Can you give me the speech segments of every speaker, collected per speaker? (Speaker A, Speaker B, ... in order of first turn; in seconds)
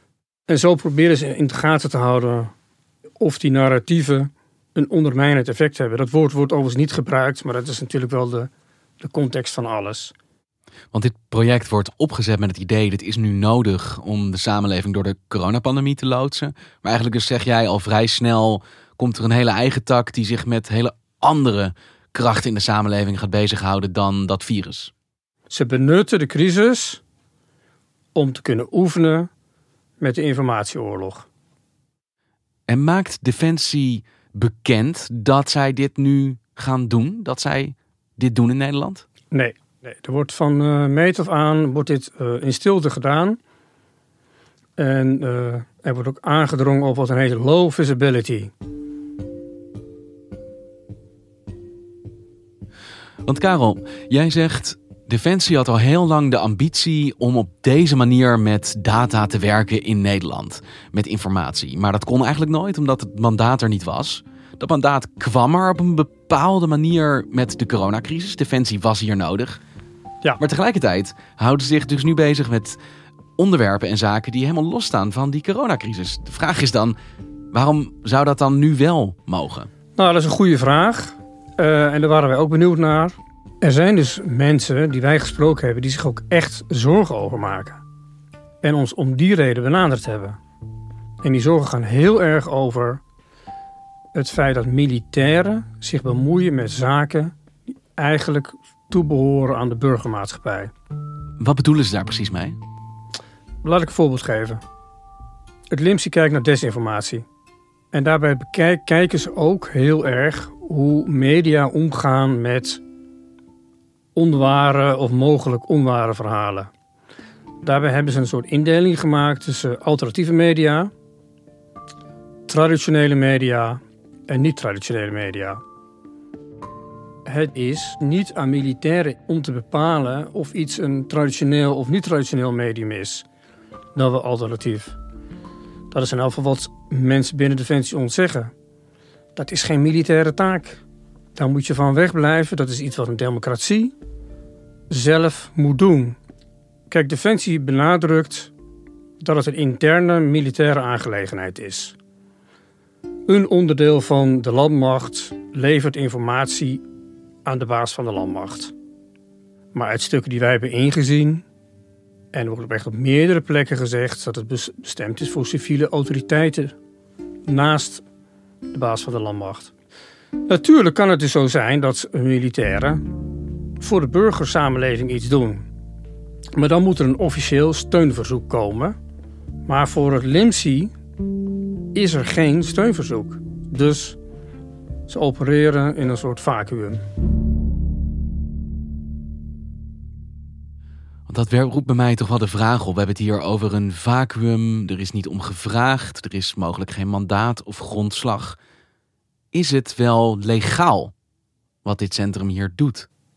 Speaker A: 0.5-2.5, 3.2-10.1, 25.5-27.0, 28.1-29.3, 30.0-31.3, 39.3-43.4, 44.8-48.5, 80.0-87.8, 88.6-90.4, 91.2-93.0, 94.1-97.3, 98.0-100.7, 103.6-104.6, 105.7-107.2, 107.9-112.8, 114.2-116.7, 117.6-120.9, 122.5-125.6, 127.3-133.3, 133.9-135.0, 135.9-138.5, 139.3-140.8, 141.4-143.9, 144.9-146.2, 146.9-148.5, 149.2-152.0, 153.3-156.8, 157.4-158.7, 159.7-161.4, 162.3-166.8, 167.5-168.0, 168.7-169.7, 170.5-173.0, 173.8-175.7, 176.5-178.9, 179.7-180.9, 181.9-184.2, 185.1-187.0
Speaker B: 10.9-24.9, 32.7-39.1, 53.2-69.6, 70.4-72.8, 73.4-77.0, 77.5-79.7, 101.4-102.6, 191.3-198.6, 199.5-201.1, 201.8-203.1